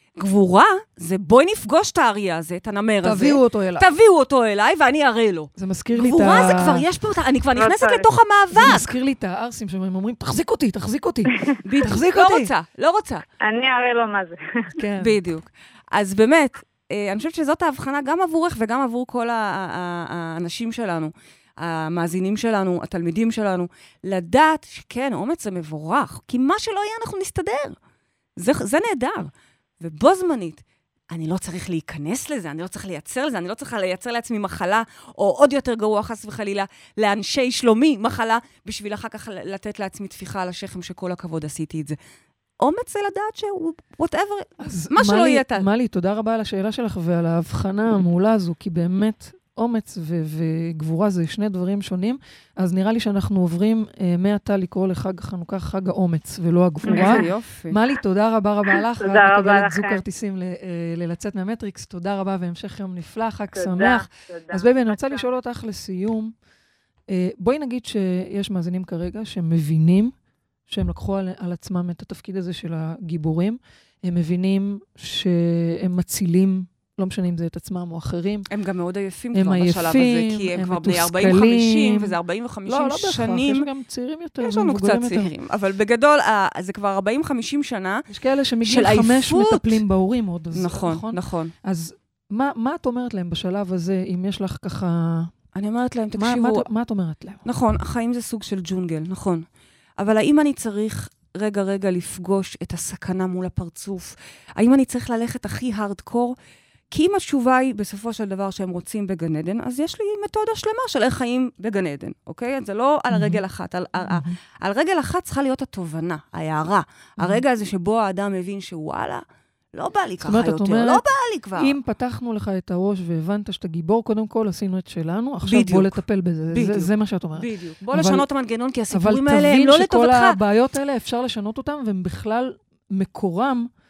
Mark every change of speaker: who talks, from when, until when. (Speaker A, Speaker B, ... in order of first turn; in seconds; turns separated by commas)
Speaker A: 0.2-8.9, Speaker B: 3.0-3.9, Speaker B: 5.6-6.8, Speaker C: 7.5-8.1, Speaker B: 8.5-12.5, Speaker A: 11.6-13.2, Speaker C: 13.4-14.7, Speaker B: 14.7-15.2, Speaker A: 15.0-27.8, Speaker A: 28.4-42.0, Speaker A: 42.6-45.7, Speaker B: 44.6-66.3, Speaker A: 56.9-57.8, Speaker C: 59.0-60.0, Speaker C: 63.5-65.2, Speaker B: 67.1-70.1, Speaker B: 70.7-78.5, Speaker A: 78.5-83.7, Speaker B: 79.3-82.2, Speaker B: 82.7-85.3, Speaker A: 84.4-88.1, Speaker B: 88.1-95.3, Speaker A: 88.6-89.8, Speaker A: 90.5-91.5, Speaker A: 95.5-96.6, Speaker B: 96.1-97.4, Speaker A: 97.4-99.4, Speaker A: 100.0-106.3, Speaker A: 106.9-121.8, Speaker B: 113.1-113.4, Speaker B: 114.0-114.4, Speaker B: 120.2-121.0, Speaker B: 121.5-128.2, Speaker A: 125.4-126.0, Speaker A: 126.5-130.4, Speaker B: 128.9-133.7